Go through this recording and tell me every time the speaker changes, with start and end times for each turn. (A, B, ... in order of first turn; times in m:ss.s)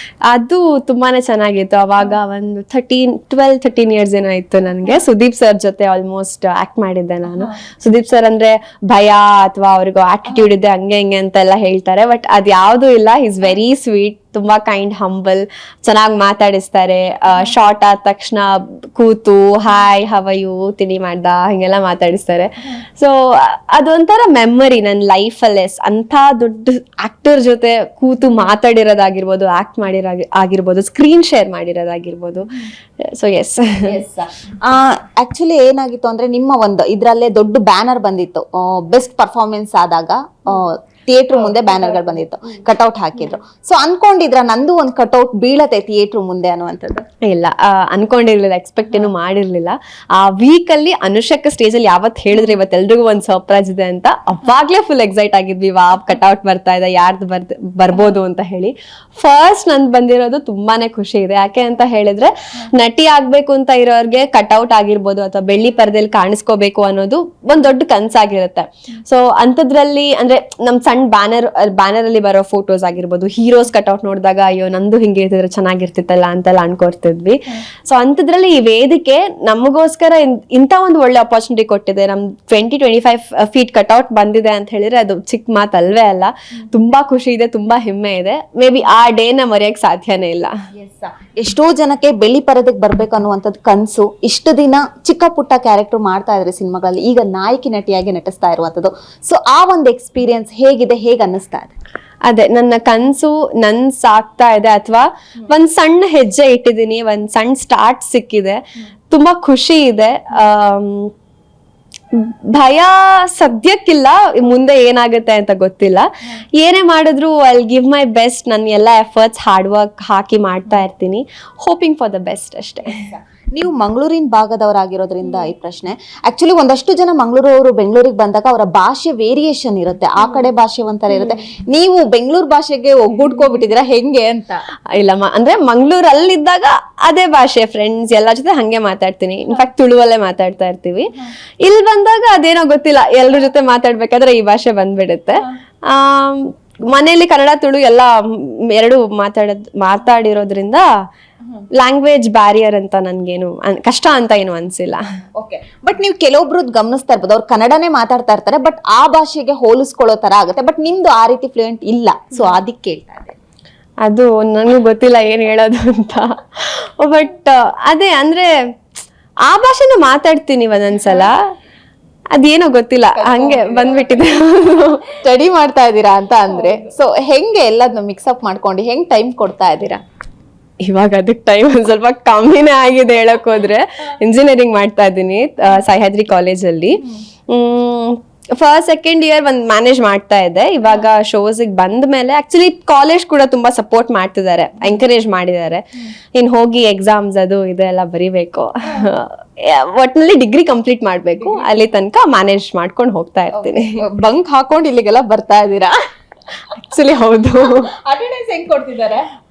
0:00.3-0:33.9 A
0:33.8-0:47.0 B
0:47.3-1:30.5 A
1:30.8-1:41.7 B
1:42.3-1:51.1 A
1:52.1-2:03.0 A
2:02.9-2:14.6 B
2:14.9-2:30.8 A
2:31.8-2:35.0 A
2:35.4-2:43.4 B
2:44.0-2:48.5 A
2:49.5-2:51.4 A
2:52.3-2:55.0 A
2:53.2-2:54.3 B
2:55.0-3:00.0 B
3:00.8-3:24.0 A
3:23.5-3:25.9 B
3:26.9-3:27.9 A
3:27.7-3:29.2 B